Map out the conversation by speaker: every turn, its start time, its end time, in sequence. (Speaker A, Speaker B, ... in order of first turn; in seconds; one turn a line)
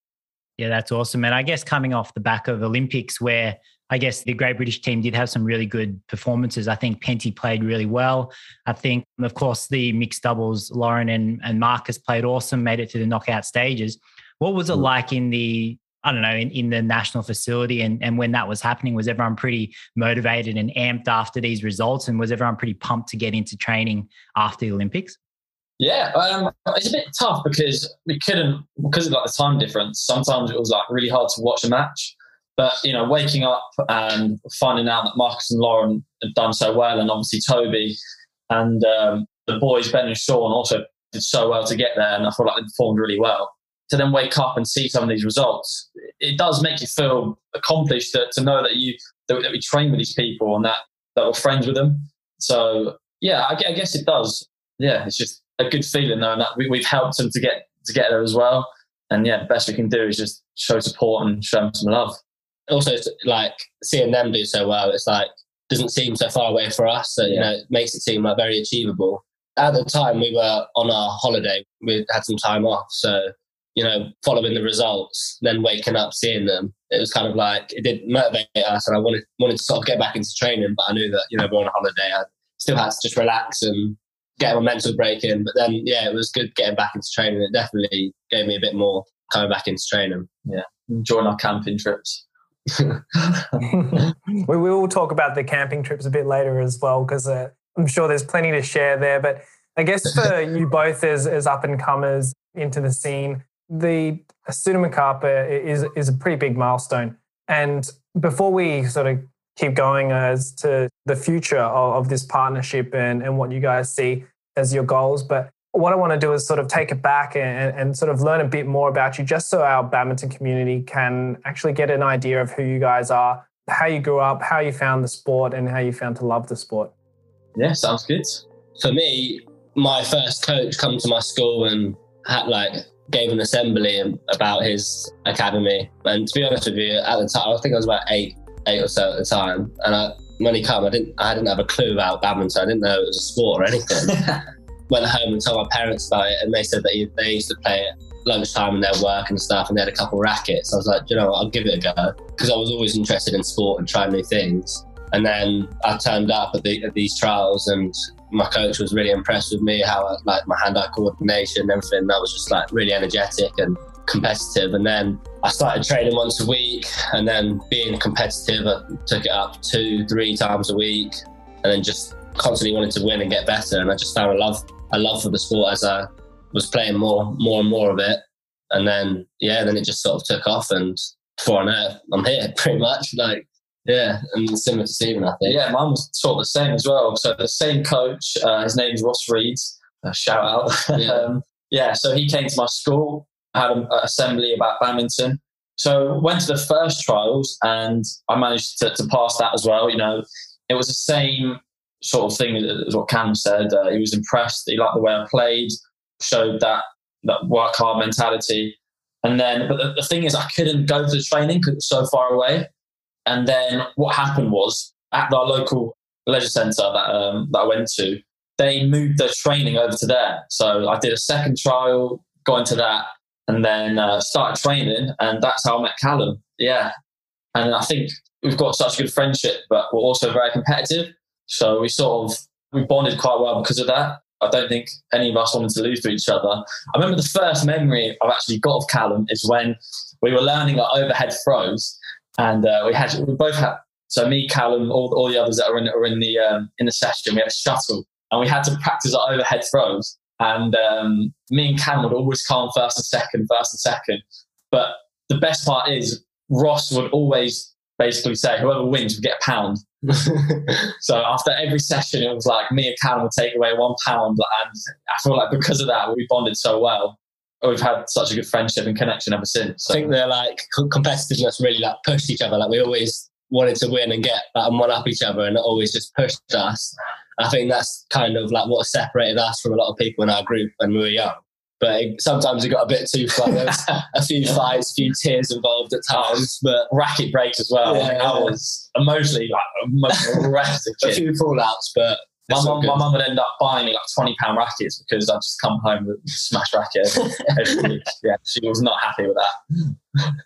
Speaker A: 0.6-25.2
Speaker B: 25.8-38.0
Speaker B: 38.5-62.2
Speaker C: 62.7-90.3
Speaker B: 90.5-92.2
Speaker C: 92.7-93.0
Speaker B: 93.2-93.7
Speaker D: 93.7-126.9
Speaker B: 127.6-128.4
Speaker C: 128.8-144.2
Speaker C: 144.9-185.6
Speaker B: 185.4-212.7
Speaker C: 190.9-191.2
Speaker B: 213.3-226.9
Speaker B: 227.6-259.8
Speaker C: 260.1-260.9
Speaker B: 261.0-270.1
Speaker C: 269.9-286.9
Speaker B: 286.1-291.2
Speaker C: 287.8-288.6
Speaker C: 290.1-290.4
Speaker C: 291.0-293.0
Speaker B: 292.5-299.9